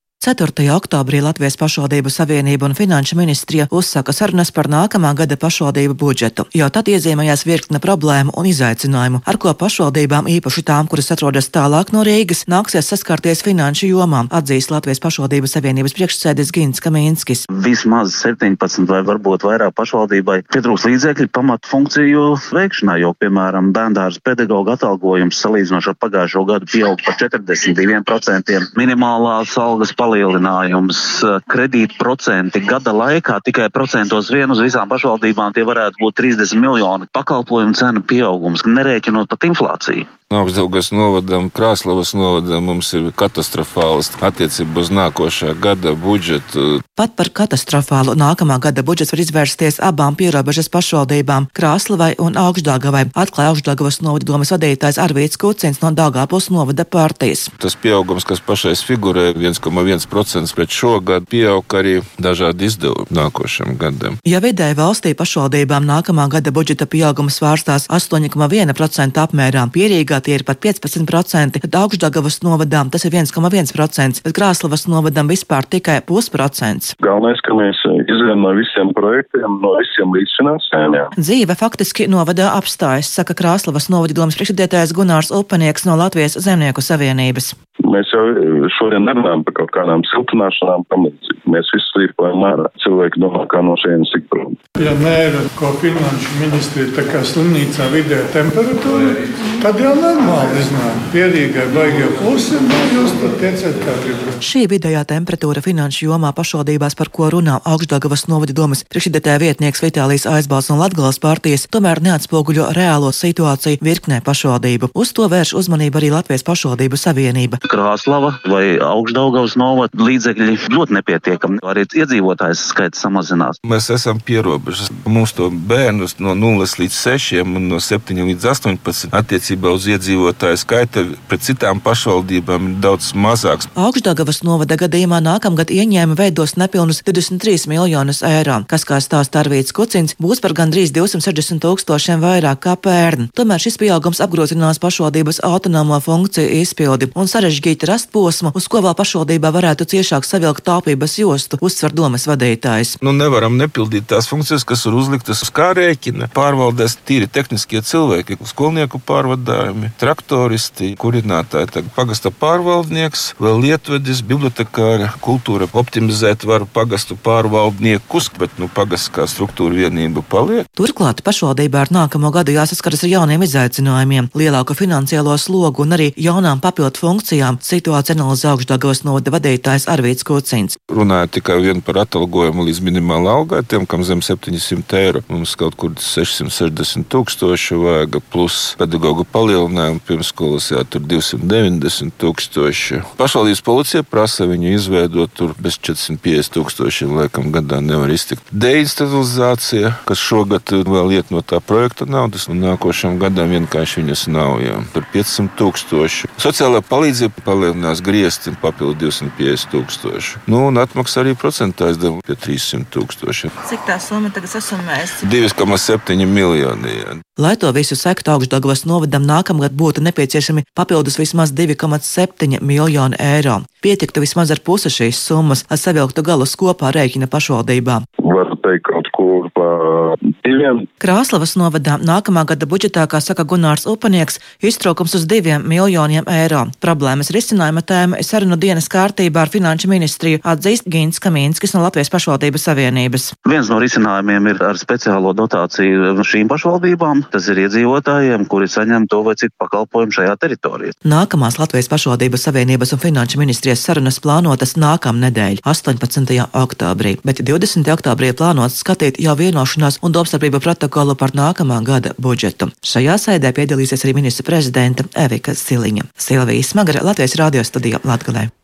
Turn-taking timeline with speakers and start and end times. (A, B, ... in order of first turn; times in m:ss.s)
0:00.2-0:17.5 A
0:17.5-0:40.1 B
0:40.3-0:46.8 C
0:47.0-0:57.5 A
0:57.6-1:04.2 C
1:04.2-1:16.9 A
1:17.0-1:21.1 D
1:21.2-1:27.6 A
1:27.8-1:34.6 D
1:34.8-1:44.4 E
1:44.4-1:57.6 A
1:57.7-2:03.6 B
2:03.6-2:13.7 C
2:13.8-2:33.0 A
2:33.0-2:50.7 C
2:50.8-3:00.8 A
3:00.9-3:33.5 C
3:35.2-3:37.2 C
3:37.4-3:48.0 A
3:48.2-3:50.9 D
3:51.0-4:03.3 A
4:03.4-4:10.9 B
4:11.0-4:28.5 A